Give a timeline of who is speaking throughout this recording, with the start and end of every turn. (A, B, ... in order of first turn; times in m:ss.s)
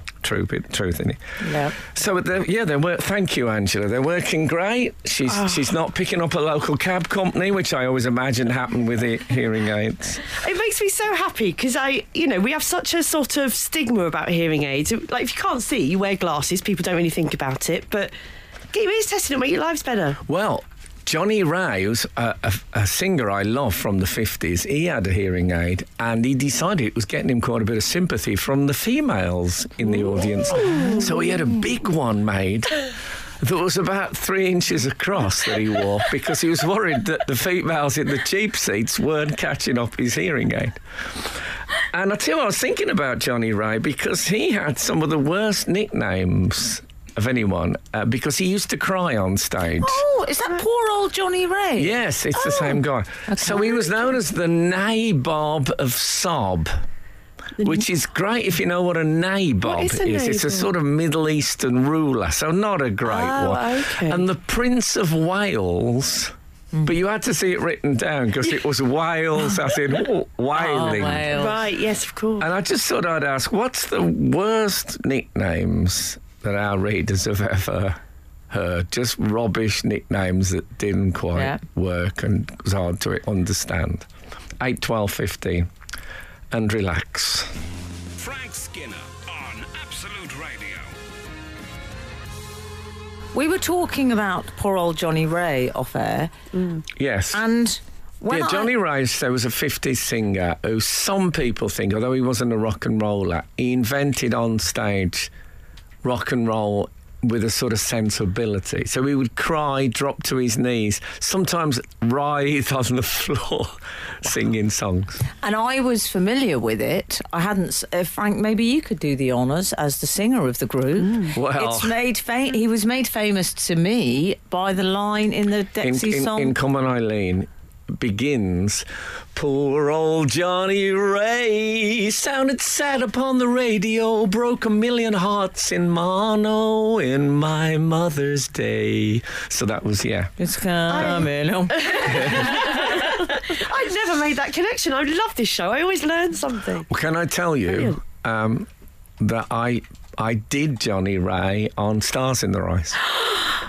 0:00.2-0:10.2 A
0:01.4-0:01.7 B
0:10.3-0:18.1 C
0:18.7-0:20.2 C
0:20.2-0:32.8 A
0:30.6-0:31.1 C
0:30.6-0:31.0 B
0:33.4-0:41.3 A
0:41.9-0:50.0 A
0:49.8-0:51.9 B
0:51.8-0:56.8 A
0:53.3-0:53.7 B
0:57.6-0:57.8 C
0:57.6-1:11.3 A
0:59.6-1:00.7 C
1:03.0-1:04.2 C
1:10.5-1:11.6 B
1:11.3-1:12.5 C
1:12.4-1:24.1 A
1:21.3-1:21.6 B
1:24.6-1:25.7 A
1:26.5-1:27.5 A
1:28.2-1:31.0 D
1:33.3-1:36.3 B
1:36.5-1:36.8 C
1:37.0-1:37.4 A
1:37.3-1:38.7 B
1:38.3-1:45.3 A
1:46.0-1:55.2 A
1:55.4-2:06.5 B
2:01.3-2:01.9 A
2:05.8-2:20.3 A
2:20.4-2:22.7 B
2:20.9-2:26.9 C
2:22.0-2:22.6 A
2:26.9-2:28.7 A
2:27.7-2:28.0 C
2:29.2-2:33.0 A